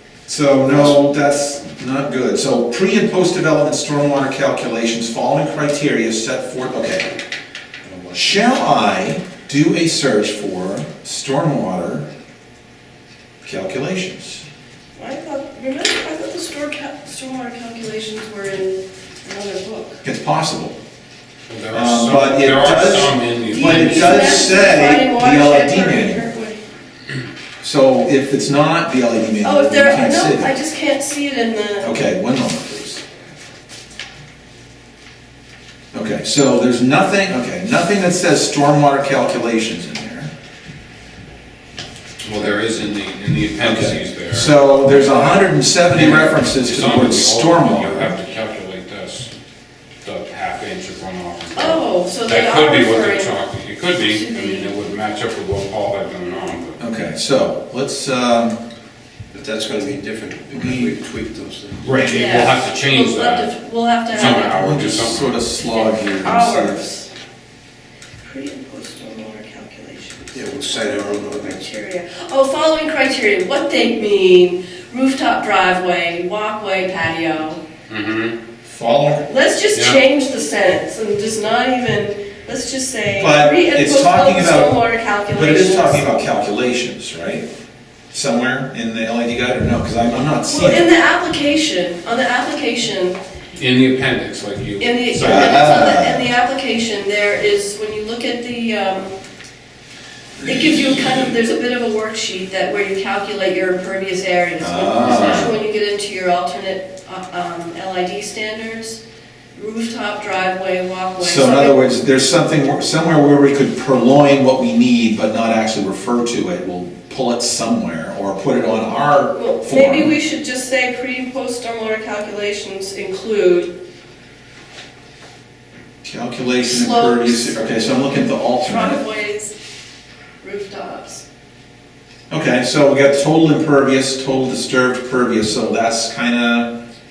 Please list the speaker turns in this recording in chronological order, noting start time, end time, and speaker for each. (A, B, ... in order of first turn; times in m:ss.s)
0:00.3-0:07.1 A
0:00.6-0:01.0 B
0:07.8-0:08.4 B
0:08.1-0:12.1 A
0:13.4-0:14.4 A
0:15.0-0:20.0 C
0:20.0-0:20.8 A
0:21.5-0:24.3 D
0:21.7-0:26.3 A
0:23.5-0:26.6 C
0:27.6-0:30.5 A
0:29.4-0:31.9 C
0:31.8-0:33.0 A
0:35.9-0:40.3 A
0:42.2-0:44.6 D
0:43.6-0:48.1 A
0:45.9-0:49.3 D
0:50.0-0:56.8 D
0:51.5-0:53.4 C
0:54.0-0:54.7 C
0:56.8-0:58.6 A
0:59.3-1:01.9 B
1:00.5-1:00.9 A
1:01.8-1:03.5 D
1:02.0-1:04.6 C
1:04.1-1:05.4 D
1:04.1-1:06.8 A
1:05.6-1:07.1 C
1:08.2-1:10.7 C
1:10.3-1:11.6 B
1:11.4-1:17.6 C
1:17.9-1:18.3 D
1:18.6-1:19.2 A
1:19.2-1:26.2 C
1:23.2-1:24.8 A
1:25.3-1:27.4 A
1:28.1-1:30.9 A
1:30.5-1:33.2 C
1:33.5-1:35.6 D
1:34.8-1:39.2 C
1:35.2-1:36.3 A
1:40.4-1:49.0 C
1:44.6-1:45.5 A
1:45.0-1:45.5 D
1:49.5-1:51.8 C
1:51.2-2:00.2 A
1:59.3-2:03.7 C
2:06.0-2:09.0 A
2:06.6-2:08.0 C
2:08.6-2:09.5 C
2:10.4-2:11.2 C
2:12.3-2:16.7 A